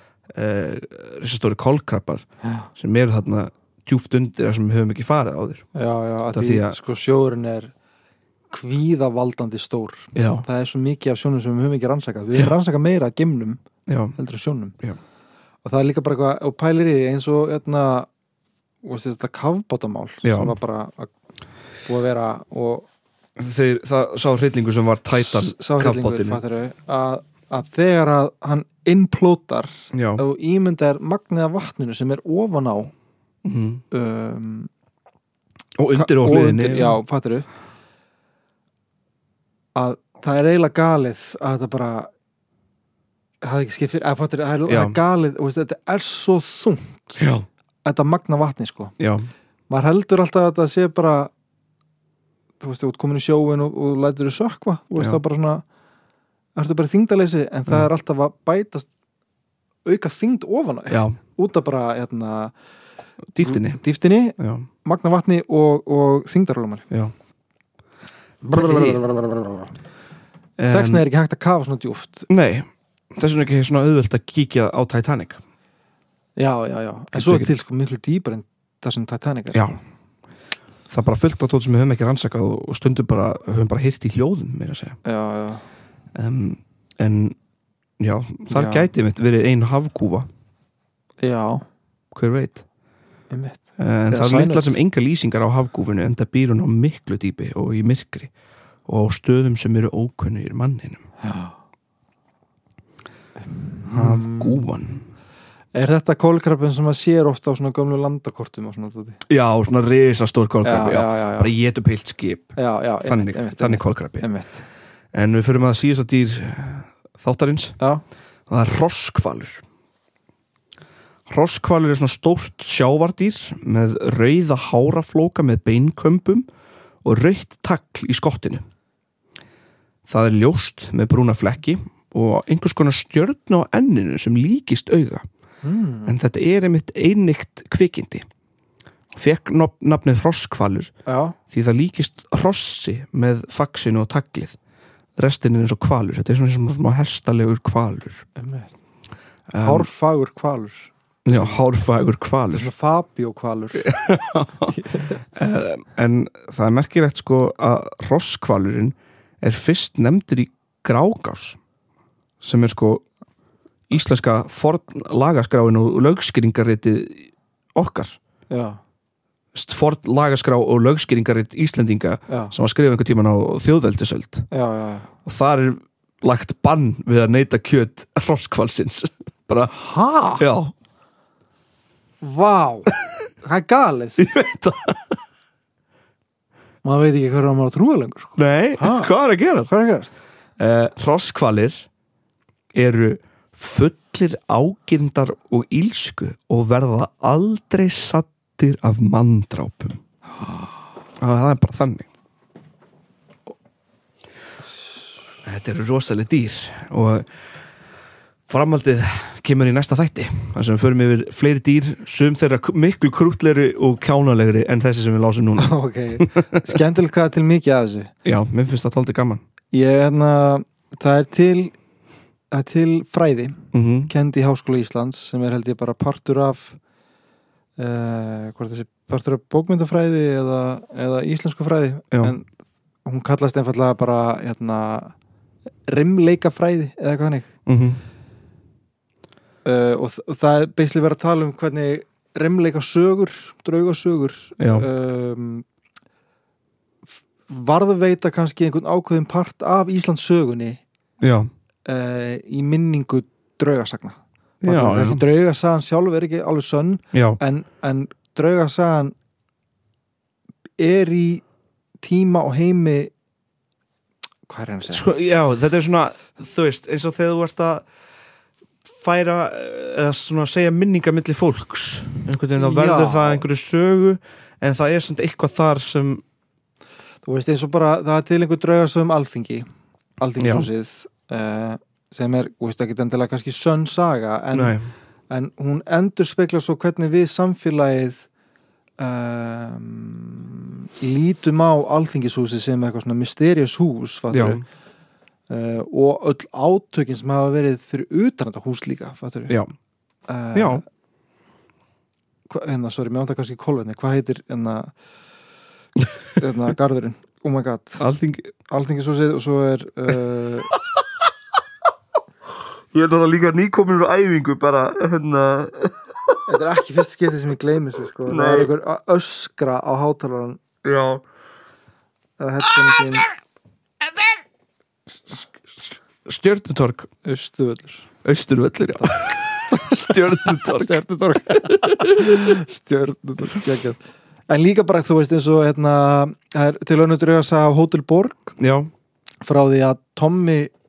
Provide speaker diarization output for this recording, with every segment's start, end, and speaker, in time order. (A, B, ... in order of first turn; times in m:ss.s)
0:00.3-0:02.2 A
0:02.8-0:05.6 A
0:05.8-0:07.7 B
0:06.3-0:06.8 A
0:08.5-0:13.6 B
0:10.2-0:10.4 A
0:13.9-0:14.2 A
0:14.2-0:14.8 B
0:15.6-0:18.1 B
0:18.8-0:21.1 B
0:20.2-0:20.5 A
0:21.9-0:22.9 B
0:23.4-0:26.4 A
0:25.2-0:32.9 B
0:29.9-0:30.2 A
0:33.4-0:33.8 A
0:33.9-0:34.7 B
0:35.8-0:37.0 A
0:35.9-0:37.5 B
0:39.8-0:42.1 B
0:43.4-0:47.2 B
0:44.7-0:45.0 A
0:47.2-0:47.5 A
0:47.8-0:48.9 B
0:49.0-0:49.3 A
0:49.7-0:51.3 B
0:52.6-0:55.6 B
0:56.6-0:58.9 B
0:59.9-1:02.5 B
1:00.9-1:01.2 A
1:03.3-1:03.8 A
1:03.4-1:06.9 B
1:04.4-1:04.7 A
1:08.4-1:09.7 B
1:08.5-1:09.0 A
1:10.6-1:11.0 A
1:10.7-1:12.3 B
1:12.3-1:15.4 A
1:16.4-1:19.7 B
1:17.1-1:17.5 A
1:20.9-1:25.0 A
1:25.0-1:25.6 B
1:26.1-1:27.4 A
1:28.0-1:30.3 A
1:28.5-1:28.9 B
1:31.2-1:31.6 B
1:32.1-1:32.6 A
1:33.3-1:33.6 B
1:33.8-1:38.3 A
1:34.1-1:34.7 B
1:38.9-1:41.0 A
1:41.2-1:41.6 B
1:43.5-1:44.6 B
1:43.9-1:45.0 A
1:45.8-1:49.2 B
1:49.3-1:54.3 A
1:50.6-1:51.5 B
1:52.6-1:54.6 B
1:55.1-1:57.8 A
1:58.5-1:59.6 A
2:01.3-2:06.5 A
2:07.0-2:08.6 A
2:10.1-2:15.2 A
2:15.6-2:16.2 B
2:16.1-2:18.3 A
2:19.1-2:20.9 A
2:21.1-2:21.4 B
2:21.5-2:24.6 A
2:25.2-2:28.3 A
2:28.4-2:28.7 B
2:29.5-2:29.9 A
2:29.6-2:31.6 B
2:31.3-2:32.7 A
2:32.5-2:33.9 B
2:33.8-2:34.8 A
2:34.7-2:35.2 B
2:35.3-2:41.6 A
2:42.4-2:43.0 A
2:43.9-2:48.2 A
2:48.5-2:48.8 B
2:49.5-2:54.5 A
2:52.3-2:52.5 B
2:54.5-2:55.1 B
2:55.3-2:59.7 A
2:59.7-3:00.4 B
3:00.4-3:00.7 A
3:02.2-3:04.2 B
3:04.2-3:05.2 A
3:06.8-3:09.1 B
3:08.4-3:09.7 A
3:09.7-3:10.2 B
3:10.6-3:11.9 A
3:12.8-3:20.0 A
3:21.2-3:22.1 A
3:25.4-3:27.3 A
3:28.5-3:36.8 A
3:35.6-3:38.1 B
3:38.2-3:39.4 A
3:39.7-3:41.8 B
3:42.5-3:46.8 B
3:43.7-3:44.1 A
3:47.8-3:52.5 B
3:53.0-3:55.2 B
3:55.9-3:57.5 B
3:57.7-3:58.0 A
3:59.6-4:05.6 B
4:04.6-4:04.9 A
4:07.5-4:10.8 B
4:11.2-4:11.5 A
4:11.9-4:19.1 B
4:14.6-4:15.2 A
4:17.1-4:17.4 A
4:20.8-4:21.4 B
4:22.0-4:23.1 B
4:24.5-4:25.1 B
4:24.9-4:27.8 A
4:28.9-4:36.2 A
4:32.6-4:33.4 B
4:37.2-4:39.7 B
4:40.2-4:44.8 B
4:40.4-4:40.7 A
4:44.5-4:44.9 A
4:45.3-4:48.2 B
4:49.0-4:54.6 B
4:54.3-4:54.6 A
4:55.5-4:59.6 B
5:00.3-5:00.8 B
5:00.5-5:00.8 A
5:02.5-5:04.9 B
5:06.4-5:08.0 B
5:08.0-5:08.5 A
5:08.7-5:10.7 B
5:12.9-5:16.4 A
5:16.5-5:20.6 B
5:18.3-5:18.7 A
5:20.8-5:21.2 A
5:22.4-5:23.3 B
5:26.2-5:27.1 A
5:27.2-5:28.1 B
5:28.2-5:31.0 A
5:29.7-5:38.6 B
5:31.5-5:32.3 A
5:38.6-5:38.9 A
5:39.4-5:40.7 B